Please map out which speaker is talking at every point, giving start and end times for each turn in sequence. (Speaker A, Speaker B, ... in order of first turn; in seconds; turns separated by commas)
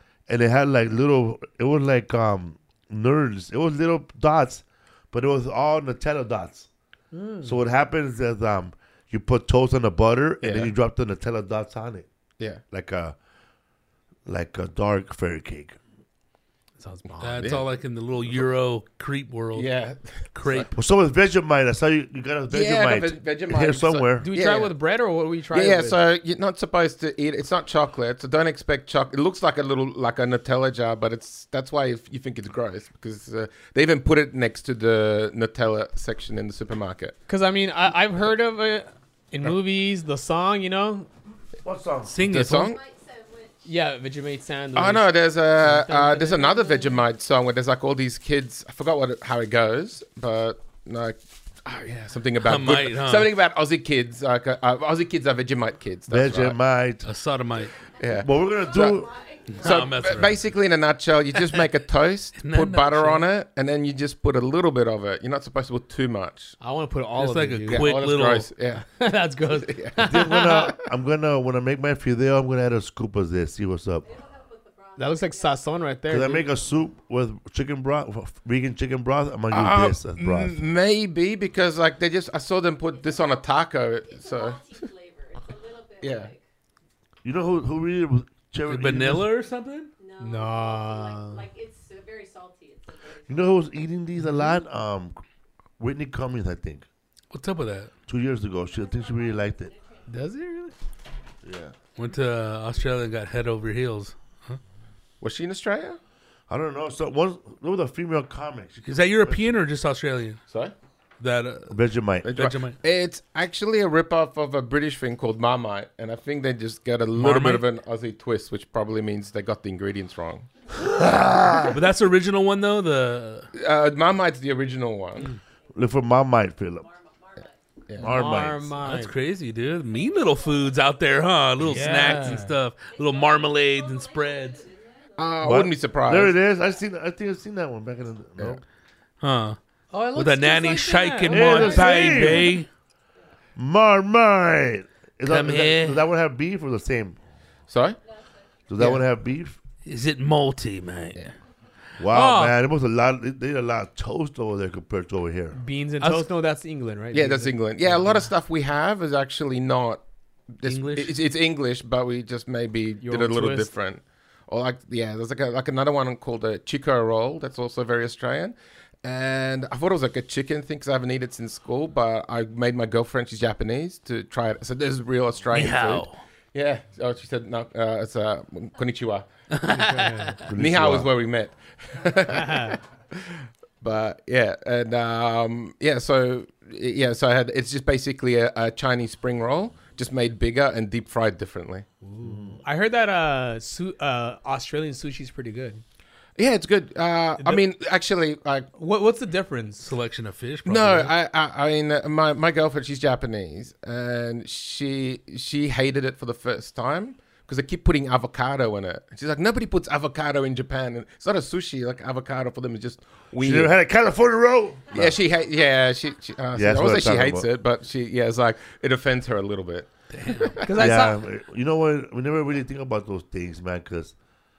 Speaker A: 0.3-6.7, Speaker B: 7.1-7.6, Speaker A: 7.4-12.1, Speaker C: 10.4-10.7, Speaker A: 12.7-13.2, Speaker A: 14.3-15.8, Speaker B: 16.8-17.6, Speaker C: 17.2-17.6, Speaker D: 17.2-19.7, Speaker C: 19.5-20.7, Speaker D: 20.3-20.8, Speaker A: 20.8-24.3, Speaker C: 22.5-24.7, Speaker B: 24.2-26.0, Speaker C: 25.5-37.2, Speaker B: 37.3-41.1, Speaker A: 41.6-42.1, Speaker D: 42.1-42.7, Speaker C: 42.2-42.8, Speaker E: 42.6-43.8, Speaker B: 43.7-47.0, Speaker C: 44.8-56.6, Speaker D: 52.4-53.3, Speaker A: 56.1-57.1, Speaker D: 57.0-57.7, Speaker C: 58.0-59.0, Speaker E: 58.0-60.3, Speaker A: 58.2-59.1, Speaker D: 59.5-60.4, Speaker C: 59.6-66.5, Speaker D: 62.4-63.3, Speaker B: 66.6-67.9, Speaker D: 67.2-68.5, Speaker C: 67.7-69.0, Speaker B: 68.9-70.7, Speaker C: 69.5-70.0, Speaker A: 70.0-74.1, Speaker E: 74.0-75.8, Speaker B: 75.0-76.5, Speaker A: 76.1-80.6, Speaker C: 79.5-84.6, Speaker E: 82.9-86.4, Speaker C: 86.0-86.3, Speaker A: 87.2-89.3, Speaker D: 88.7-89.9, Speaker E: 90.0-93.8, Speaker B: 90.2-91.5, Speaker A: 93.3-95.2, Speaker A: 95.8-96.9, Speaker D: 97.3-97.9, Speaker A: 98.1-99.7, Speaker E: 98.7-100.2, Speaker B: 100.1-100.8, Speaker A: 101.4-101.7, Speaker D: 102.0-104.6, Speaker C: 105.2-106.0, Speaker A: 106.5-109.5, Speaker D: 108.9-110.4, Speaker C: 110.5-110.7, Speaker D: 111.2-112.8, Speaker A: 111.7-112.3, Speaker C: 112.2-120.5, Speaker D: 117.2-117.6, Speaker A: 120.8-121.8, Speaker D: 121.7-123.5, Speaker C: 123.5-125.3, Speaker A: 125.8-126.9, Speaker E: 126.7-127.6, Speaker C: 127.9-128.2, Speaker A: 128.0-128.7, Speaker B: 128.0-129.1, Speaker D: 128.8-134.7, Speaker E: 129.8-135.8, Speaker B: 131.6-132.5, Speaker C: 135.2-136.4, Speaker A: 135.4-138.6, Speaker D: 139.2-139.6, Speaker B: 139.9-142.4, Speaker D: 140.1-142.7, Speaker A: 141.3-142.6, Speaker A: 143.6-147.2, Speaker D: 145.3-146.0, Speaker C: 147.7-148.0, Speaker E: 148.0-148.9, Speaker A: 148.7-149.6, Speaker D: 149.8-151.3, Speaker A: 152.0-155.6, Speaker B: 152.1-152.5, Speaker B: 155.5-158.3, Speaker D: 156.0-156.3, Speaker C: 157.1-160.0, Speaker C: 160.5-179.3, Speaker D: 160.7-161.2, Speaker B: 163.0-163.7, Speaker D: 175.5-176.2, Speaker D: 179.5-180.4, Speaker B: 179.7-180.4, Speaker A: 180.4-181.1, Speaker C: 180.5-191.9, Speaker B: 182.3-182.8, Speaker B: 192.0-195.8, Speaker A: 192.2-192.6, Speaker C: 196.4-198.7, Speaker B: 198.8-199.9, Speaker D: 199.8-201.1, Speaker C: 200.7-213.7, Speaker A: 213.4-215.2, Speaker C: 214.9-220.7, Speaker A: 216.5-217.5, Speaker D: 220.1-220.6, Speaker B: 220.6-221.2, Speaker A: 220.8-224.1